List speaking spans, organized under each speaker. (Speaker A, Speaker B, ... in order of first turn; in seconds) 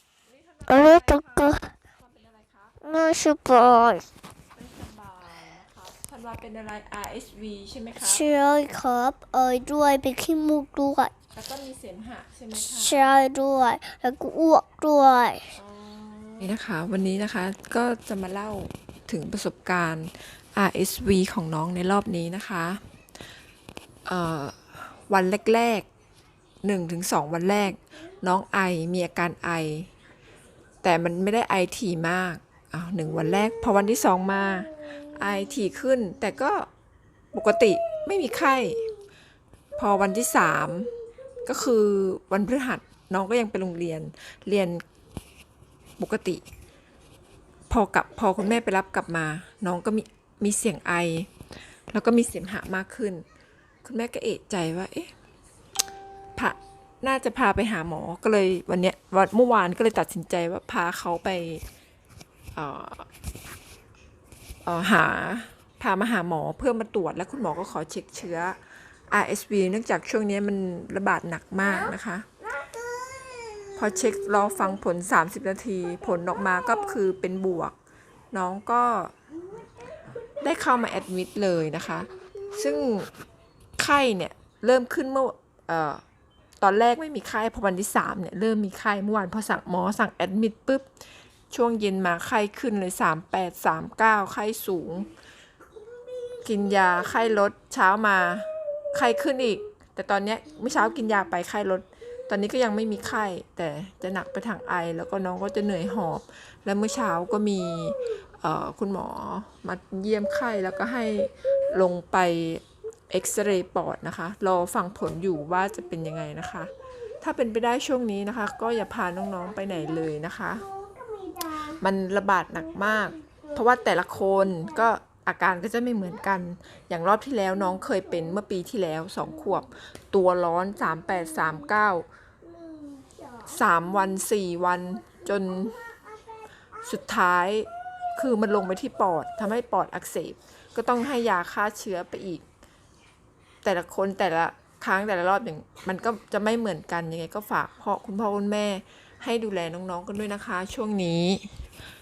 Speaker A: 0.2-2.8, 4.5-8.3, 11.3-13.1, 15.6-22.8, 24.1-25.9, 26.6-29.9, 30.8-36.7, 37.3-38.9, 39.8-40.9, 41.4-44.8, 46.0-46.4, 47.7-51.3, 51.9-53.2, 53.8-55.1, 56.4-61.6, 62.5-63.1, 64.6-72.3, 73.7-77.7, 78.3-79.1, 80.4-83.1, 83.8-86.0, 86.6-90.8, 91.5-95.1, 96.4-120.7, 121.5-132.1, 133.4-135.8, 136.8-142.4, 143.6-151.5
Speaker B: 0.7-1.7, 2.8-4.0, 8.0-11.1, 12.6-15.5